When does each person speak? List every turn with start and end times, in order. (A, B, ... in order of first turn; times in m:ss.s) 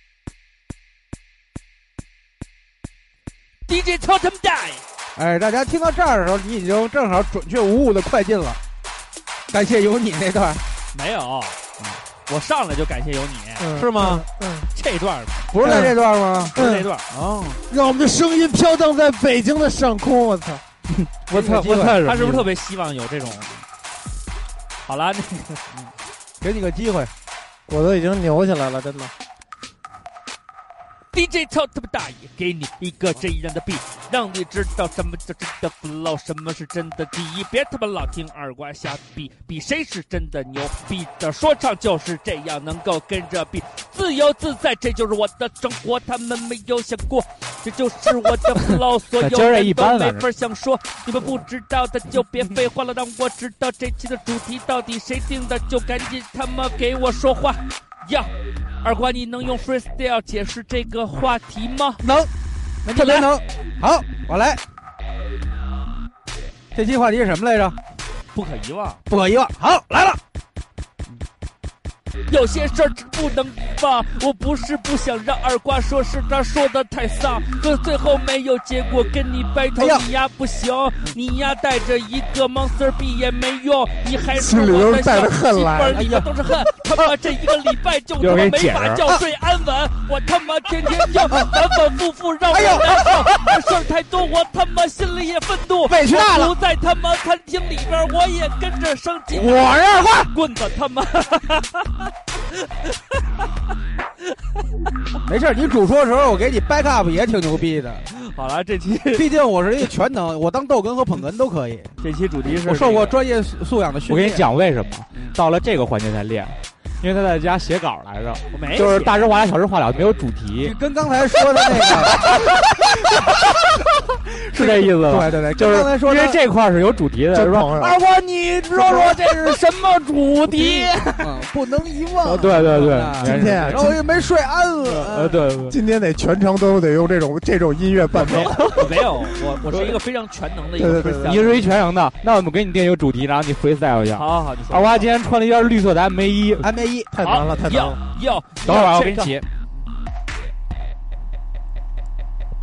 0:03.7-0:04.8 A
0:05.2-0:08.6 B
0:09.5-0:10.6 B
0:10.9-0:11.6 A
0:12.3-0:13.7 A
0:13.6-0:14.7 C
0:13.7-0:14.2 B
0:14.7-0:15.5 A
0:15.5-0:16.6 B
0:15.6-0:16.0 C
0:16.5-0:17.0 A
0:16.5-0:16.9 C
0:17.1-0:17.6 B
0:17.7-0:20.6 C
0:21.0-0:22.0 B
0:21.3-0:22.5 D
0:21.8-0:23.5 A
0:24.8-0:25.6 A
0:25.7-0:27.1 B
0:27.7-0:29.1 C
0:31.1-0:58.3 A
0:49.2-0:50.2 D
0:58.8-1:02.0 A
1:02.0-1:02.3 B
1:02.8-1:04.6 B
1:02.9-1:03.3 A
1:06.7-1:07.8 B
1:08.3-1:09.0 A
1:09.1-1:10.2 B
1:12.3-1:43.2 A
1:19.8-1:20.0 B
1:24.3-1:26.1 C
1:25.9-1:26.3 B
1:28.2-1:29.0 D
1:31.3-1:31.6 B
1:32.5-1:33.5 B
1:35.9-1:36.6 B
1:39.3-1:40.3 B
1:45.2-1:48.0 B
1:48.1-1:49.3 A
1:49.1-1:51.9 B
1:52.0-1:53.2 A
1:52.6-1:54.4 B
1:54.1-2:00.7 D
1:58.5-1:59.2 A
2:00.6-2:03.3 B
2:04.5-2:08.0 D
2:04.6-2:06.4 B
2:07.3-2:08.0 C
2:08.3-2:09.6 B
2:08.8-2:11.0 D
2:10.5-2:11.2 A
2:11.2-2:15.4 B
2:12.2-2:14.0 D
2:13.2-2:14.0 C
2:14.9-2:15.8 D
2:15.7-2:18.6 C
2:18.2-2:21.6 A
2:18.3-2:18.5 D
2:20.8-2:21.4 C
2:20.8-2:26.7 D
2:24.2-2:25.1 A
2:26.6-2:27.2 B
2:27.1-2:28.0 C
2:27.2-2:29.3 A
2:28.6-2:29.4 D